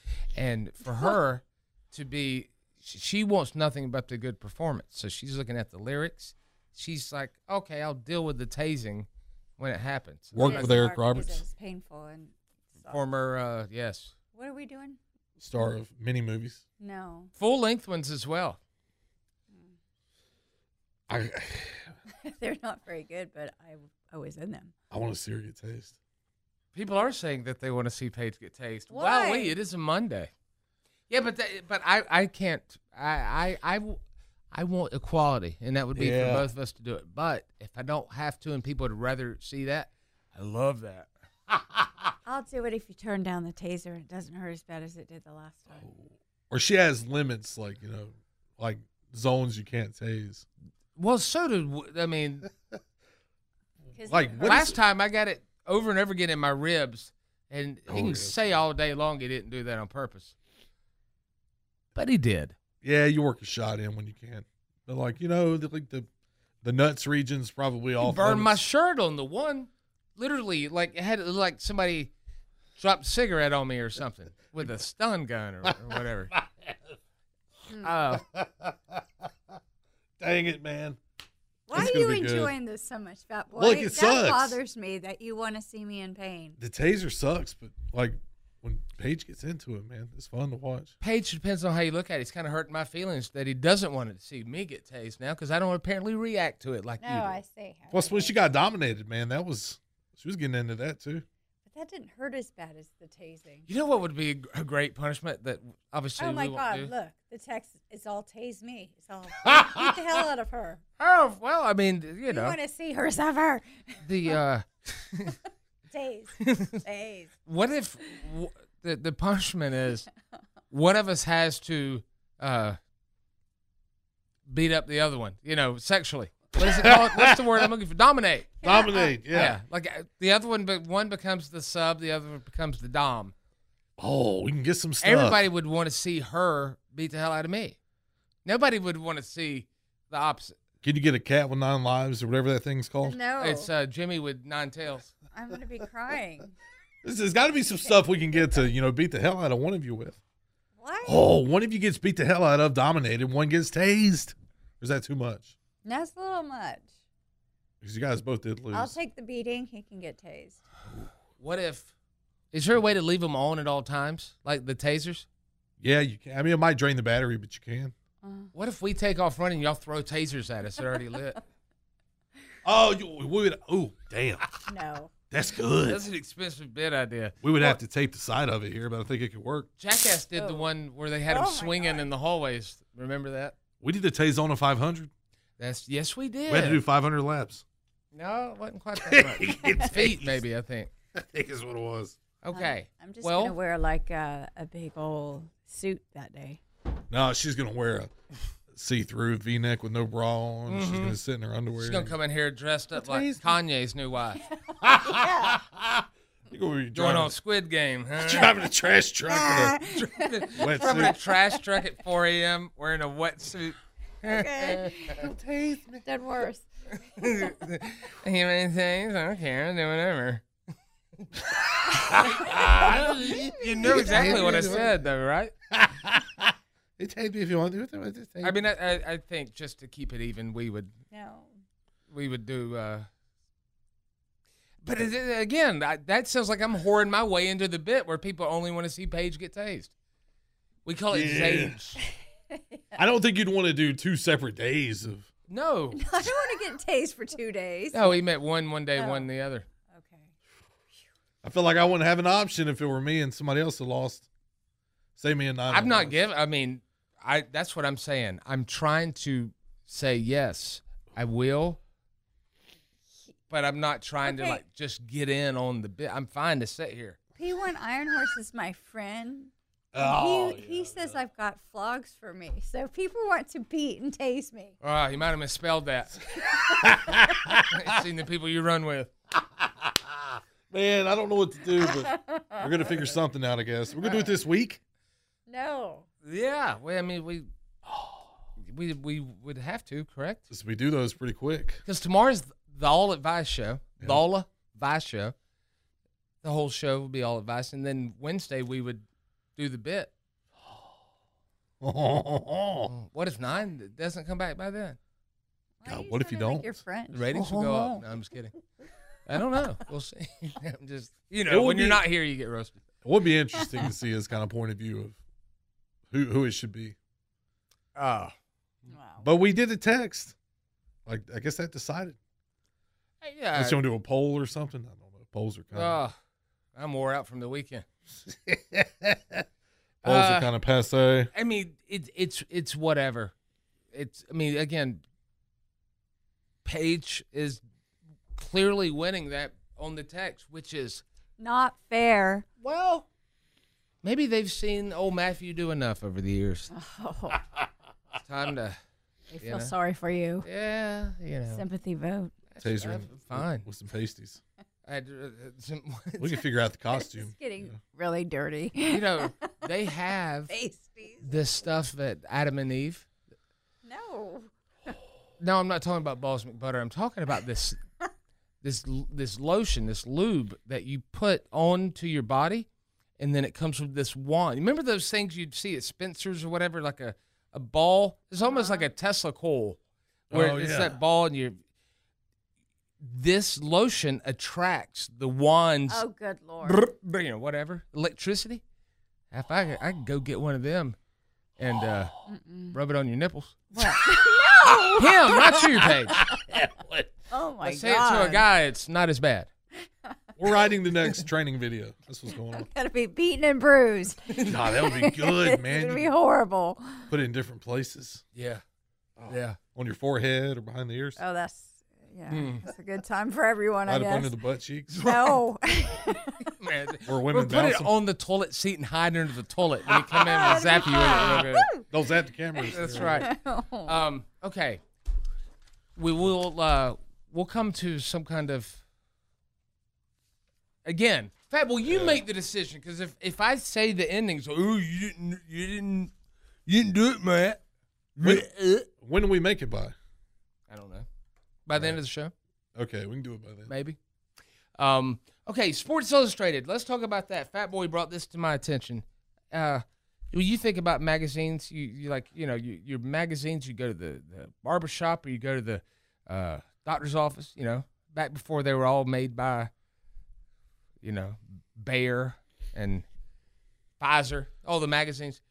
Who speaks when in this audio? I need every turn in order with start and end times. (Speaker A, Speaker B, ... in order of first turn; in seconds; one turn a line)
Speaker A: 0.3-10.9
Speaker B: 10.3-11.4
Speaker C: 10.3-13.0
Speaker A: 12.9-14.1
Speaker C: 14.3-15.0
Speaker B: 15.4-16.6
Speaker C: 16.8-17.3
Speaker A: 17.4-18.6
Speaker B: 21.1-21.9
Speaker C: 22.2-24.7
Speaker B: 24.9-26.0
Speaker A: 26.7-30.3
Speaker C: 28.9-29.6
Speaker A: 31.1-34.0
Speaker A: 34.5-41.1
Speaker B: 36.0-36.5
Speaker C: 42.3-45.9
Speaker B: 45.7-50.5
Speaker A: 51.0-52.5
Speaker C: 54.0-54.7
Speaker B: 54.0-54.8
Speaker A: 54.4-60.4
Speaker B: 57.9-58.4
Speaker A: 62.0-62.6
Speaker B: 62.8-66.1
Speaker B: 66.6-68.6
Speaker A: 68.0-72.1
Speaker A: 72.8-76.3
Speaker B: 76.3-76.8
Speaker A: 77.8-78.2
Speaker B: 78.2-79.0
Speaker B: 80.2-81.0
Speaker C: 81.7-86.6
Speaker B: 81.7-82.5
Speaker B: 83.5-84.6
Speaker B: 86.6-90.9
Speaker A: 91.0-97.4
Speaker C: 97.0-98.4
Speaker B: 97.9-101.2
Speaker C: 101.7-103.7
Speaker A: 103.7-106.9
Speaker C: 106.2-110.8
Speaker A: 111.0-112.6
Speaker C: 112.3-113.7
Speaker A: 114.0-115.4
Speaker C: 115.9-117.3
Speaker A: 116.4-116.8
Speaker A: 117.5-120.1
Speaker A: 120.7-122.8
Speaker A: 124.5-128.6
Speaker B: 126.6-127.7
Speaker B: 128.6-129.6
Speaker C: 128.6-129.2
Speaker A: 129.3-133.3
Speaker B: 134.0-135.4
Speaker A: 135.0-137.8
Speaker A: 138.4-140.6
Speaker B: 140.8-143.2
Speaker C: 143.0-143.7
Speaker A: 143.4-145.1
Speaker C: 145.3-146.5
Speaker B: 147.0-150.2
Speaker C: 150.8-151.3
Speaker B: 151.1-155.6
Speaker C: 155.8-156.9
Speaker B: 157.8-159.0
Speaker C: 158.7-160.6
Speaker A: 161.4-161.9
Speaker A: 162.5-165.3
Speaker B: 165.8-167.9
Speaker C: 168.2-168.5
Speaker A: 168.5-171.4
Speaker B: 172.6-174.5
Speaker C: 174.7-175.1
Speaker B: 175.3-176.0
Speaker A: 175.9-177.7
Speaker B: 177.4-179.7
Speaker A: 179.8-183.6
Speaker C: 180.4-180.7
Speaker C: 181.3-182.1
Speaker B: 183.8-185.1
Speaker A: 185.6-186.8
Speaker B: 186.5-187.6
Speaker A: 188.1-190.9
Speaker B: 189.0-190.4
Speaker B: 191.2-192.2
Speaker A: 192.4-193.6
Speaker C: 192.5-196.6
Speaker B: 197.1-198.1
Speaker B: 198.7-202.2
Speaker A: 200.7-201.2
Speaker A: 201.8-204.4
Speaker B: 202.9-203.6
Speaker B: 204.8-207.3
Speaker C: 205.0-205.6
Speaker A: 206.9-208.5
Speaker B: 208.2-209.9
Speaker C: 209.3-211.1
Speaker A: 209.9-215.1
Speaker B: 210.6-211.2
Speaker C: 214.2-215.2
Speaker B: 215.1-216.0
Speaker C: 216.0-216.7
Speaker A: 217.1-220.4
Speaker B: 221.9-225.0
Speaker C: 222.2-223.0
Speaker A: 223.5-225.5
Speaker C: 223.7-224.9
Speaker B: 225.7-228.6
Speaker A: 228.4-230.9
Speaker C: 231.1-231.5
Speaker A: 232.1-233.1
Speaker A: 234.8-239.9
Speaker A: 240.8-242.0
Speaker B: 241.1-241.8
Speaker C: 242.5-242.8
Speaker B: 242.9-245.3
Speaker A: 245.5-246.0
Speaker C: 245.9-248.2
Speaker A: 247.9-249.7
Speaker C: 248.9-249.3
Speaker C: 249.9-250.3
Speaker B: 251.4-254.3
Speaker B: 255.2-256.2
Speaker A: 255.7-261.8
Speaker A: 263.5-267.2
Speaker C: 264.2-264.6
Speaker C: 267.4-274.7
Speaker B: 269.9-271.2
Speaker A: 274.8-276.2
Speaker B: 276.7-277.7
Speaker A: 277.7-279.1
Speaker B: 279.6-284.8
Speaker C: 281.8-283.1
Speaker C: 285.5-286.1
Speaker A: 286.2-287.5
Speaker B: 287.9-288.3
Speaker A: 288.7-290.4
Speaker B: 290.5-291.8
Speaker A: 291.9-295.3
Speaker A: 296.4-299.0
Speaker A: 299.6-300.1
Speaker B: 301.8-302.9
Speaker A: 302.9-305.0
Speaker C: 305.8-308.0
Speaker B: 305.9-306.8
Speaker A: 307.1-308.5
Speaker A: 309.3-312.8
Speaker B: 311.5-312.1
Speaker B: 313.0-315.2
Speaker B: 316.1-317.0
Speaker A: 317.9-318.3
Speaker C: 318.9-319.3
Speaker B: 319.2-320.4
Speaker B: 321.1-322.2
Speaker A: 323.2-323.8
Speaker B: 323.5-326.0
Speaker A: 325.7-326.1
Speaker A: 326.8-327.9
Speaker B: 328.2-329.4
Speaker A: 330.0-330.5
Speaker B: 330.0-331.3
Speaker A: 331.3-333.3
Speaker A: 333.9-335.0
Speaker A: 336.6-337.6
Speaker A: 338.4-341.0
Speaker C: 341.4-342.4
Speaker A: 342.6-343.1
Speaker A: 344.0-346.7
Speaker C: 346.7-347.4
Speaker A: 348.2-348.8
Speaker C: 349.3-350.5
Speaker A: 349.4-349.7
Speaker A: 350.4-351.6
Speaker C: 351.5-352.4
Speaker A: 352.5-353.7
Speaker B: 352.6-354.4
Speaker A: 354.9-356.4
Speaker B: 356.2-357.8
Speaker C: 356.9-359.3
Speaker A: 358.9-360.5
Speaker C: 360.5-361.3
Speaker A: 361.2-363.1
Speaker C: 363.9-364.5
Speaker A: 365.4-367.8
Speaker A: 368.6-372.7
Speaker A: 373.2-379.8
Speaker C: 378.4-378.9
Speaker B: 380.3-381.0
Speaker A: 380.3-381.6
Speaker A: 383.0-386.0
Speaker C: 385.9-386.8
Speaker A: 386.6-388.6
Speaker A: 389.3-391.0
Speaker A: 391.6-392.1
Speaker C: 392.3-392.8
Speaker A: 392.7-393.7
Speaker C: 393.7-396.2
Speaker A: 395.0-396.2
Speaker B: 395.8-397.1
Speaker C: 397.3-398.5
Speaker A: 397.6-399.5
Speaker B: 400.4-402.7
Speaker C: 402.5-407.1
Speaker A: 404.3-404.6
Speaker B: 404.4-406.1
Speaker B: 407.1-408.2
Speaker A: 408.4-408.6
Speaker B: 409.2-411.2
Speaker A: 409.3-409.6
Speaker C: 411.2-414.3
Speaker A: 412.3-412.7
Speaker B: 413.9-415.1
Speaker A: 414.9-415.4
Speaker C: 415.0-416.5
Speaker A: 416.6-421.7
Speaker B: 417.1-417.9
Speaker C: 420.1-421.9
Speaker B: 421.9-423.3
Speaker C: 422.7-424.0
Speaker A: 422.7-423.3
Speaker A: 423.9-424.8
Speaker A: 426.0-428.8
Speaker A: 430.9-436.1
Speaker B: 431.9-432.2
Speaker A: 436.7-437.6
Speaker A: 438.2-438.9
Speaker B: 438.2-438.5
Speaker B: 439.0-439.9
Speaker A: 440.7-441.1
Speaker A: 441.7-442.3
Speaker B: 442.8-443.7
Speaker A: 443.7-444.0
Speaker A: 444.8-459.7
Speaker A: 461.0-463.1
Speaker A: 464.0-465.4